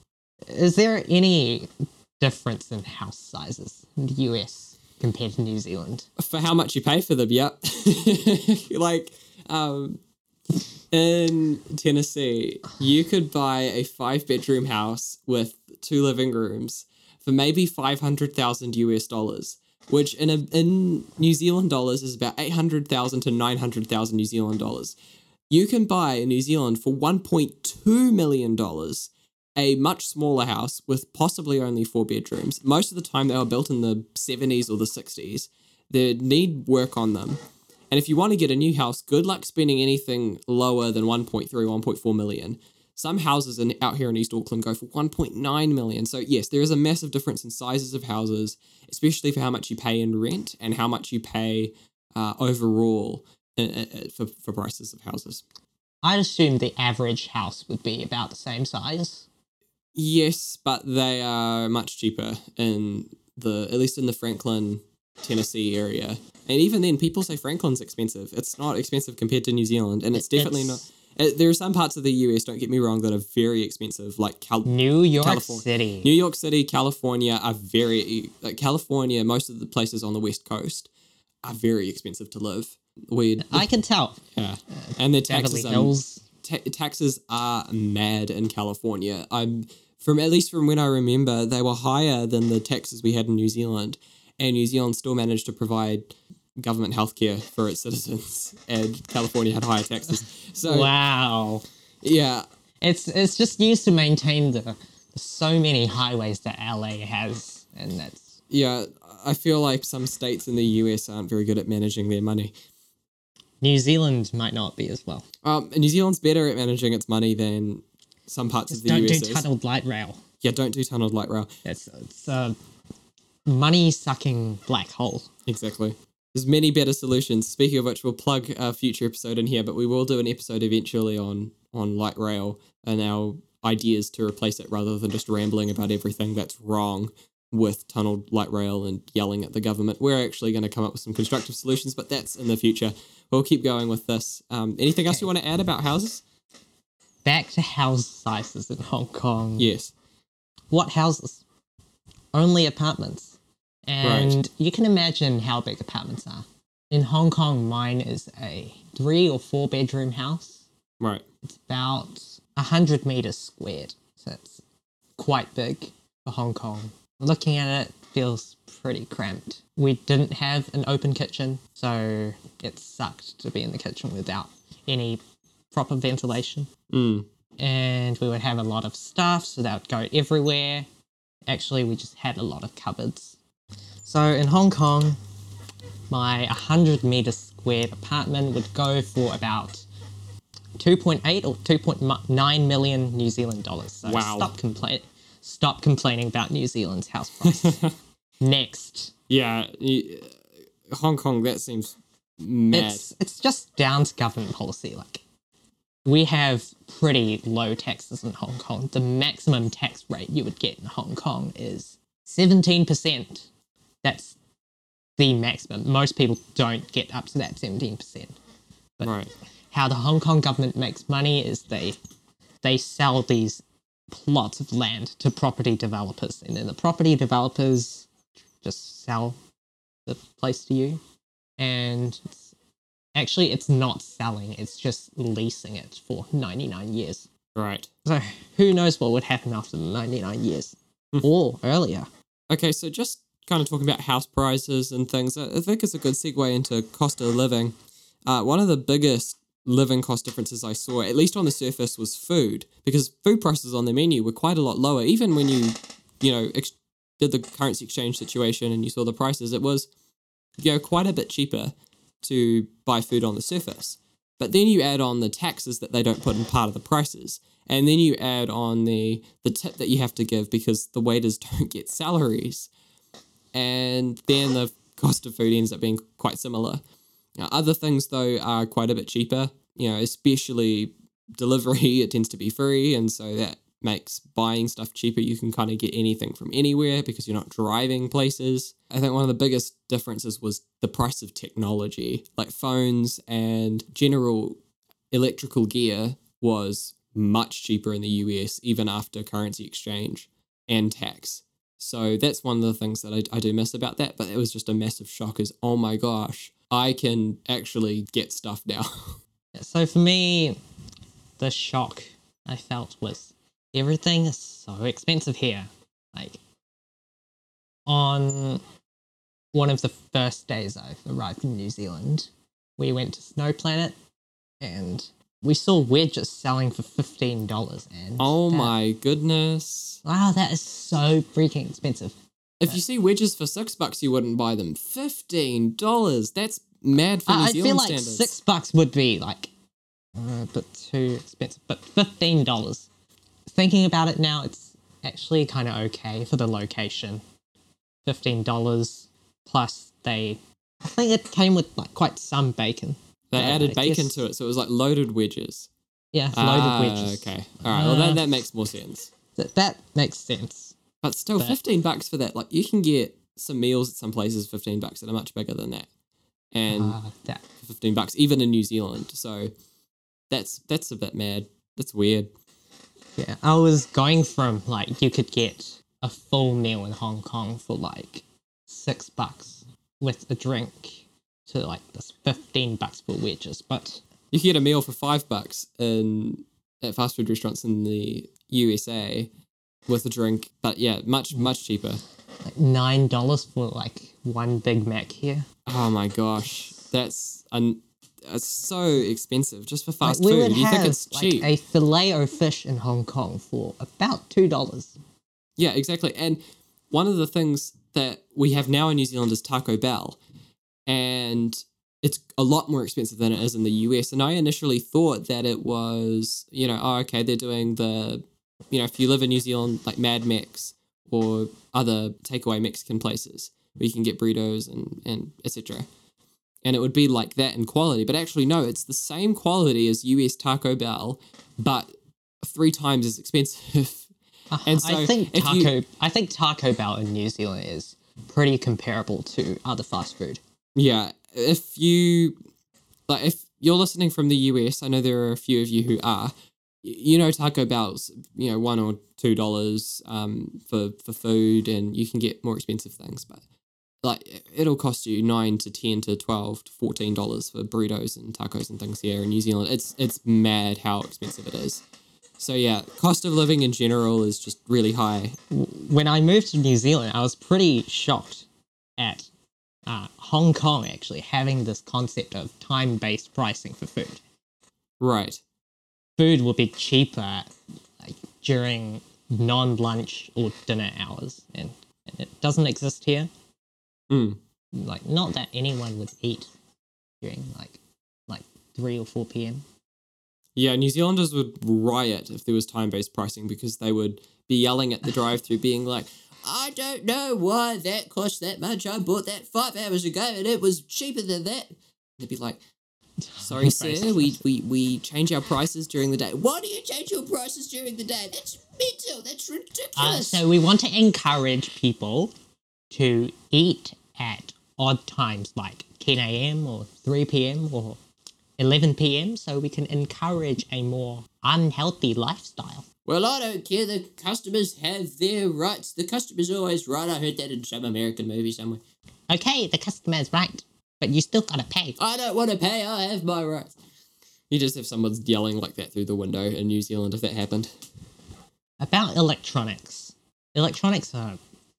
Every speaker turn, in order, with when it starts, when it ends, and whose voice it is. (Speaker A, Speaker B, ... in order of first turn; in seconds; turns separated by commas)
Speaker A: 0.4-6.1, Speaker B: 6.2-10.0, Speaker B: 10.9-24.9, Speaker B: 25.5-37.4, Speaker B: 37.9-55.4, Speaker A: 56.0-59.3, Speaker B: 59.9-80.9, Speaker A: 70.1-70.8, Speaker A: 74.7-76.1, Speaker B: 81.4-83.7, Speaker A: 83.4-84.2, Speaker B: 84.3-100.9, Speaker A: 84.7-86.2, Speaker A: 100.6-101.6, Speaker B: 102.0-102.5, Speaker A: 102.8-108.3, Speaker B: 108.5-112.5, Speaker A: 113.6-115.2, Speaker B: 115.4-119.4, Speaker A: 118.7-120.2, Speaker B: 120.4-121.5, Speaker A: 121.6-122.5, Speaker A: 123.5-125.3, Speaker B: 125.5-146.2, Speaker A: 147.2-149.7, Speaker B: 149.6-149.9, Speaker A: 150.7-151.4, Speaker A: 152.3-160.6, Speaker B: 154.0-154.4, Speaker A: 161.4-164.6, Speaker A: 165.2-175.2, Speaker A: 175.7-176.7, Speaker B: 176.9-177.2, Speaker A: 177.6-180.9, Speaker A: 181.5-183.4, Speaker A: 184.0-185.2, Speaker A: 186.1-189.8, Speaker A: 190.8-197.9, Speaker B: 194.0-194.5, Speaker B: 197.4-197.9, Speaker A: 198.4-199.1, Speaker B: 199.3-203.0, Speaker A: 202.7-205.2, Speaker A: 206.0-213.5, Speaker A: 214.0-214.4, Speaker A: 215.2-218.3, Speaker B: 219.0-219.3, Speaker A: 219.7-222.0, Speaker A: 222.6-228.1, Speaker A: 228.6-229.4, Speaker A: 230.1-231.0, Speaker A: 231.6-232.5, Speaker A: 233.1-237.3, Speaker B: 237.5-237.9, Speaker A: 238.1-242.1, Speaker B: 242.5-247.7, Speaker B: 248.2-259.9, Speaker B: 260.6-272.7, Speaker B: 273.5-276.8, Speaker B: 277.4-294.6, Speaker B: 295.1-309.2, Speaker A: 309.5-310.6, Speaker A: 311.4-316.4, Speaker A: 317.9-318.6, Speaker A: 319.5-323.9, Speaker A: 324.6-328.7, Speaker B: 328.2-330.0, Speaker A: 330.0-332.2, Speaker B: 332.6-338.3, Speaker A: 337.2-339.5, Speaker A: 340.1-342.9, Speaker A: 343.5-347.2, Speaker A: 348.0-354.2, Speaker B: 353.3-355.7, Speaker A: 356.1-358.2, Speaker B: 356.3-359.1, Speaker A: 359.4-360.8, Speaker B: 361.0-365.9, Speaker B: 366.5-367.0, Speaker A: 366.7-367.4, Speaker B: 367.6-369.5, Speaker B: 370.3-372.3, Speaker A: 373.2-384.0, Speaker B: 384.3-389.3, Speaker B: 389.9-392.0, Speaker A: 392.4-395.4, Speaker B: 395.7-401.5, Speaker A: 400.0-405.0, Speaker B: 405.6-410.2, Speaker B: 410.9-425.9, Speaker B: 426.6-434.1, Speaker A: 434.5-440.4, Speaker B: 434.6-435.7, Speaker B: 440.8-442.4, Speaker B: 443.1-453.4, Speaker B: 454.0-461.8, Speaker B: 462.4-465.4, Speaker A: 465.5-468.4, Speaker A: 469.0-469.3, Speaker A: 469.9-474.2, Speaker B: 475.0-475.4, Speaker A: 476.2-483.3, Speaker B: 484.1-484.4, Speaker A: 484.7-486.5, Speaker A: 487.2-489.6, Speaker B: 490.6-502.6, Speaker A: 503.2-504.4, Speaker B: 503.4-510.4, Speaker A: 509.9-512.3, Speaker A: 512.9-518.0, Speaker A: 518.6-522.9, Speaker B: 523.0-528.8, Speaker A: 529.3-532.0, Speaker B: 532.0-533.7, Speaker B: 534.5-537.7, Speaker A: 538.8-541.4